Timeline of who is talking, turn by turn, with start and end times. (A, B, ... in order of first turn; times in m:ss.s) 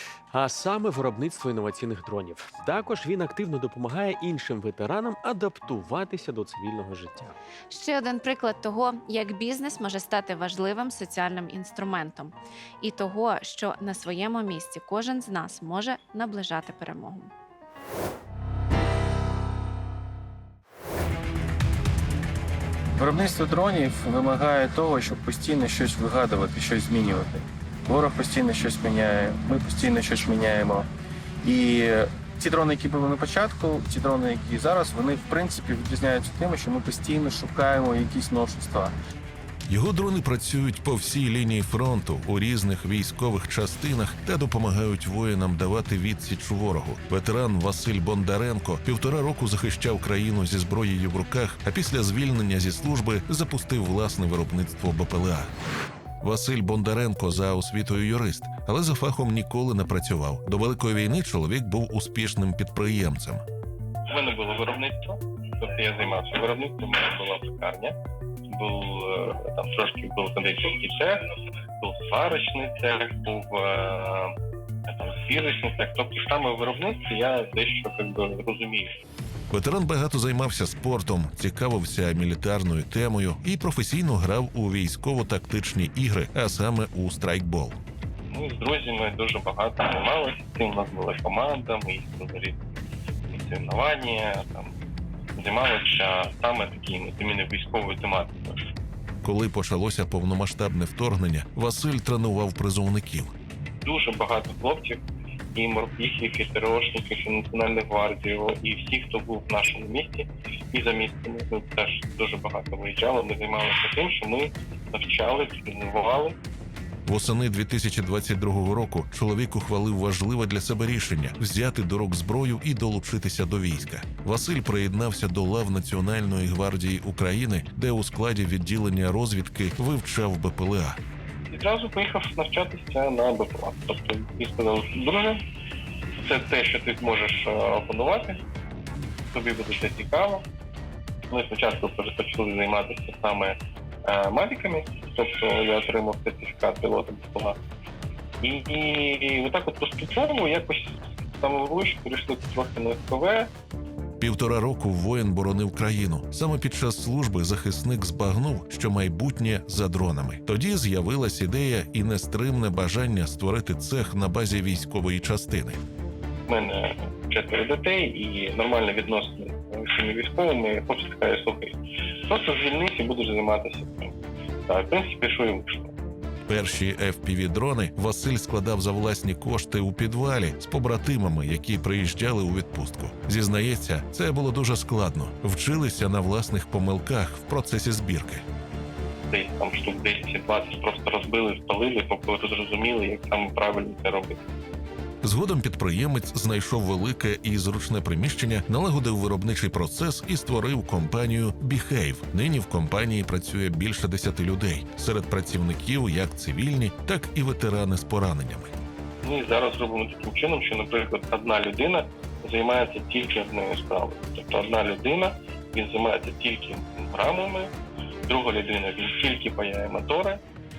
0:00.3-0:07.4 A
0:07.7-0:17.3 B
0:23.0-0:30.9 C
0:31.4-0:38.9 C
0:39.7-0:55.5 D
0:56.2-1:03.4 D
1:04.1-1:08.0 E
1:08.5-1:14.3 E
1:14.9-1:19.0 E
1:19.5-1:27.8 D
1:28.3-1:32.6 E
1:33.3-1:34.8 E
1:35.4-1:38.7 E
1:39.2-1:43.3 D
1:43.8-1:45.0 E
1:45.6-1:56.4 E
1:57.1-2:11.0 D
2:11.5-2:15.4 E
2:16.2-2:18.4 E
2:19.3-2:20.4 E
2:21.3-2:27.6 E
2:28.4-2:33.5 E
2:34.2-2:45.8 D
2:46.5-2:54.1 E
2:54.7-2:55.9 E
2:56.5-3:08.4 D
3:09.3-3:14.4 E
3:15.2-3:28.7 D
3:29.2-3:37.7 E
3:38.3-3:40.4 E